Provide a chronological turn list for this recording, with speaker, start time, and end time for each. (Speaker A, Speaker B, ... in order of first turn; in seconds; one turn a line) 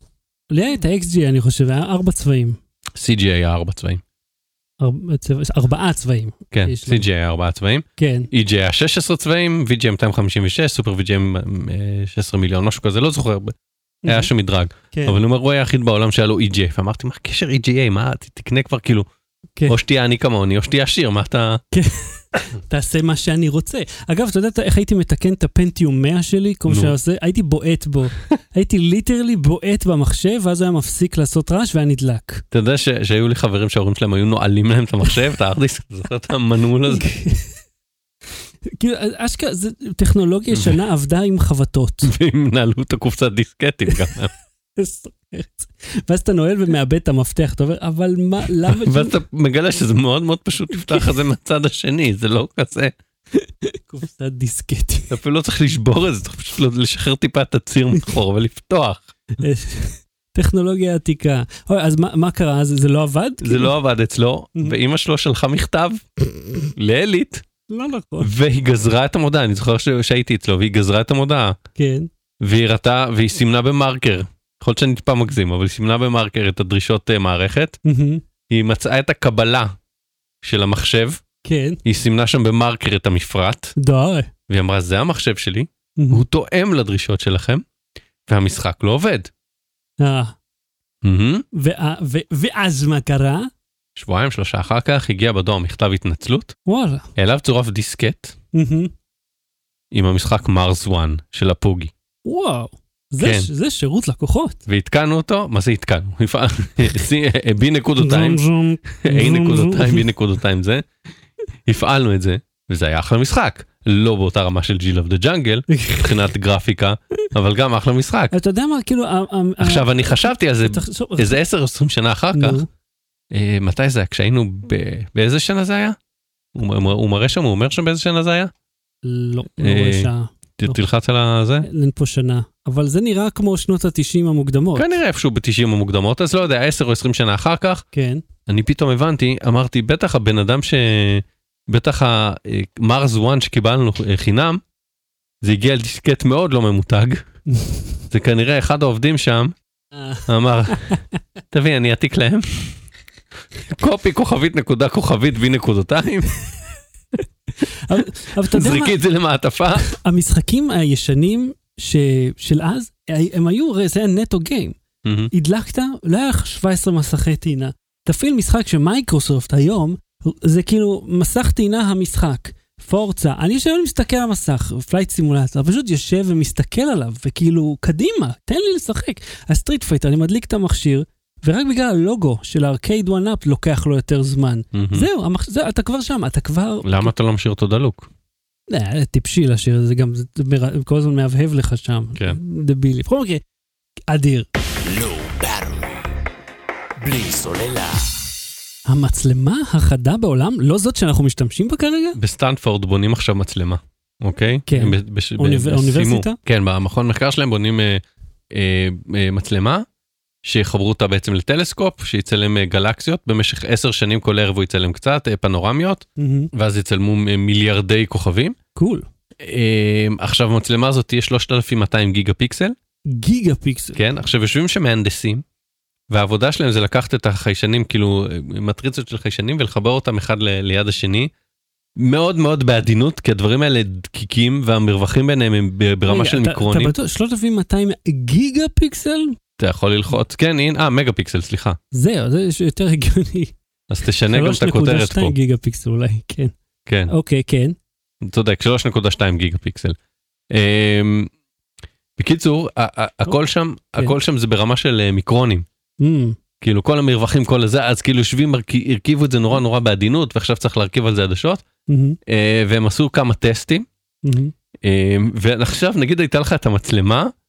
Speaker A: 0.5-2.6
Speaker B: 2.9-4.0
Speaker A: 4.8-7.1
Speaker B: 6.5-13.5
Speaker A: 8.0-8.3
Speaker A: 14.0-14.3
Speaker B: 14.1-19.1
Speaker A: 14.9-15.2
Speaker B: 19.7-21.6
Speaker A: 21.7-32.4
Speaker B: 26.7-26.9
Speaker B: 32.5-37.1
Speaker A: 36.9-37.5
Speaker A: 38.6-42.1
Speaker B: 40.5-40.8
Speaker B: 42.0-44.3
Speaker A: 44.8-49.2
Speaker B: 48.6-52.9
Speaker A: 53.3-55.2
Speaker B: 55.1-59.1
Speaker A: 59.4-63.7
Speaker B: 63.4-66.0
Speaker B: 66.7-67.4
Speaker A: 67.7-68.3
Speaker B: 68.2-71.5
Speaker A: 71.8-72.1
Speaker B: 72.4-77.8
Speaker A: 77.8-78.2
Speaker B: 78.5-79.7
Speaker B: 80.4-81.2
Speaker A: 81.4-81.8
Speaker B: 81.8-83.7
Speaker A: 83.8-84.3
Speaker B: 84.5-87.6
Speaker A: 86.0-86.2
Speaker B: 88.3-89.3
Speaker A: 90.0-90.3
Speaker B: 91.0-91.4
Speaker A: 91.5-93.5
Speaker B: 94.0-96.5
Speaker A: 96.7-97.0
Speaker B: 97.2-98.3
Speaker A: 98.5-98.9
Speaker B: 99.9-101.9
Speaker A: 102.2-104.6
Speaker B: 103.2-103.5
Speaker B: 104.7-108.4
Speaker A: 108.0-110.0
Speaker B: 109.0-110.9
Speaker B: 111.6-118.3
Speaker A: 115.7-116.1
Speaker A: 118.3-121.4
Speaker B: 119.6-122.6
Speaker A: 122.3-122.7
Speaker B: 123.3-126.0
Speaker B: 126.5-128.5
Speaker A: 129.0-130.8
Speaker B: 129.6-131.7
Speaker A: 131.6-134.9
Speaker B: 134.7-137.8
Speaker A: 137.9-138.2
Speaker B: 138.4-144.6
Speaker B: 145.4-147.2
Speaker A: 147.5-147.9
Speaker B: 148.1-149.5
Speaker A: 149.9-151.0
Speaker B: 150.3-151.0
Speaker B: 151.5-152.8
Speaker B: 153.7-156.3
Speaker A: 157.7-159.0
Speaker B: 158.4-159.8
Speaker A: 159.8-164.8
Speaker B: 165.0-165.3
Speaker A: 165.3-187.1
Speaker B: 184.7-185.1
Speaker B: 186.8-188.1
Speaker A: 188.7-193.4
Speaker A: 194.1-194.5
Speaker C: 194.6-196.2
Speaker C: 197.0-198.3
Speaker A: 198.8-202.2
Speaker B: 202.2-209.8
Speaker A: 204.7-206.4
Speaker B: 210.4-218.6
Speaker A: 216.2-216.5
Speaker A: 218.8-219.0
Speaker B: 219.4-222.7
Speaker A: 223.1-224.0
Speaker B: 223.9-225.4
Speaker B: 226.1-231.3
Speaker B: 232.0-236.9
Speaker A: 236.1-239.4
Speaker B: 239.6-241.8
Speaker A: 241.9-243.5
Speaker B: 243.9-245.3
Speaker A: 244.3-246.5
Speaker B: 246.8-247.1
Speaker A: 247.1-247.8
Speaker B: 248.2-249.9
Speaker B: 250.5-251.3
Speaker B: 252.2-255.6
Speaker A: 256.0-256.4
Speaker B: 256.6-261.6
Speaker A: 261.9-262.2
Speaker B: 262.2-263.8
Speaker A: 264.2-264.5
Speaker B: 264.8-267.3